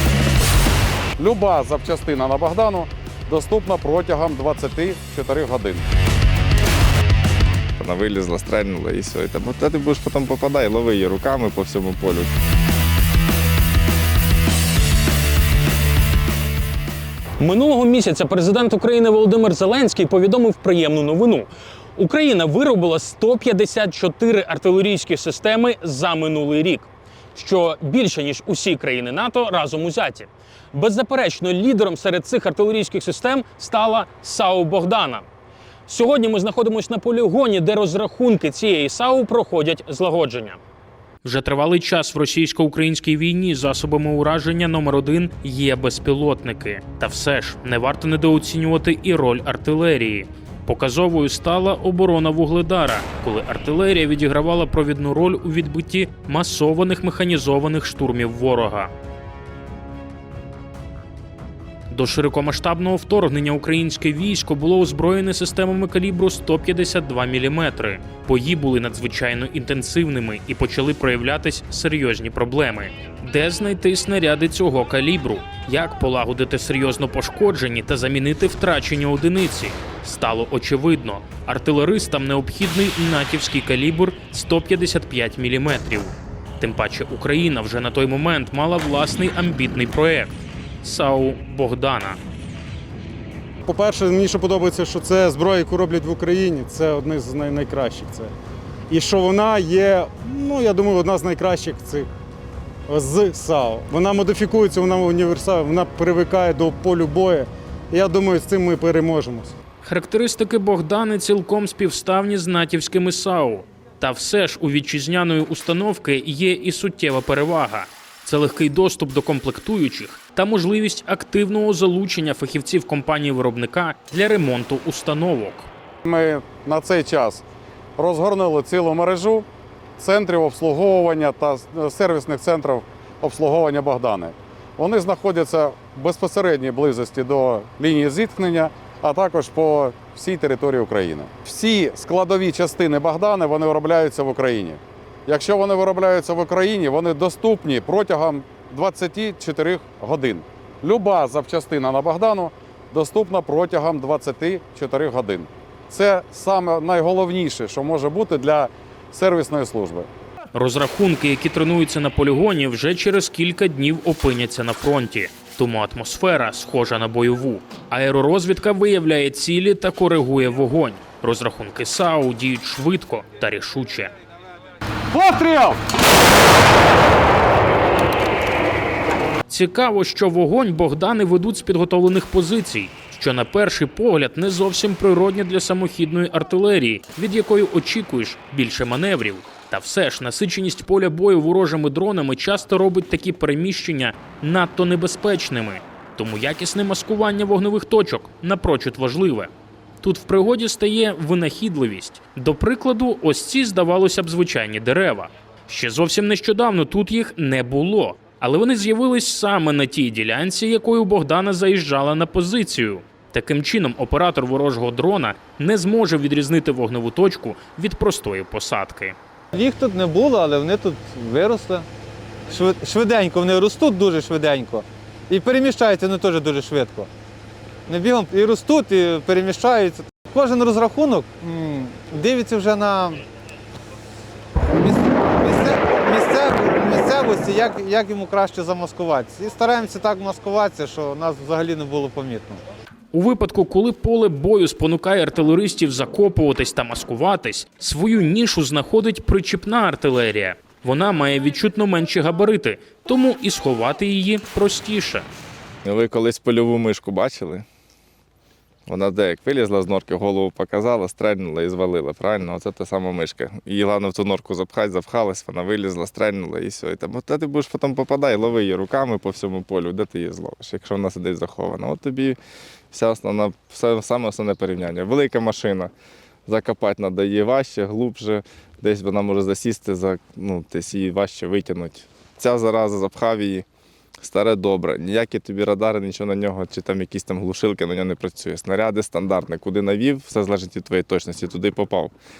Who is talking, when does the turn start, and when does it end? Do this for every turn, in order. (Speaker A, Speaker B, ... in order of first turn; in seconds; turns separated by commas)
Speaker A: 1.2-5.8, Speaker B: 7.8-12.3, Speaker C: 17.4-35.2, Speaker C: 35.9-40.6, Speaker C: 41.2-58.9, Speaker C: 61.9-92.2, Speaker D: 93.7-98.3, Speaker D: 98.9-102.1, Speaker D: 102.9-109.5, Speaker C: 109.8-125.7, Speaker A: 126.0-127.4, Speaker A: 128.0-129.5, Speaker A: 130.0-160.1, Speaker C: 160.5-174.1, Speaker A: 175.1-175.8, Speaker C: 179.5-219.2, Speaker E: 219.5-221.8, Speaker E: 222.5-227.1, Speaker E: 227.9-233.2, Speaker E: 234.7-242.6, Speaker C: 243.1-255.3, Speaker B: 255.8-257.6, Speaker B: 258.9-272.4, Speaker B: 272.9-275.9, Speaker B: 276.5-283.6, Speaker B: 284.2-292.1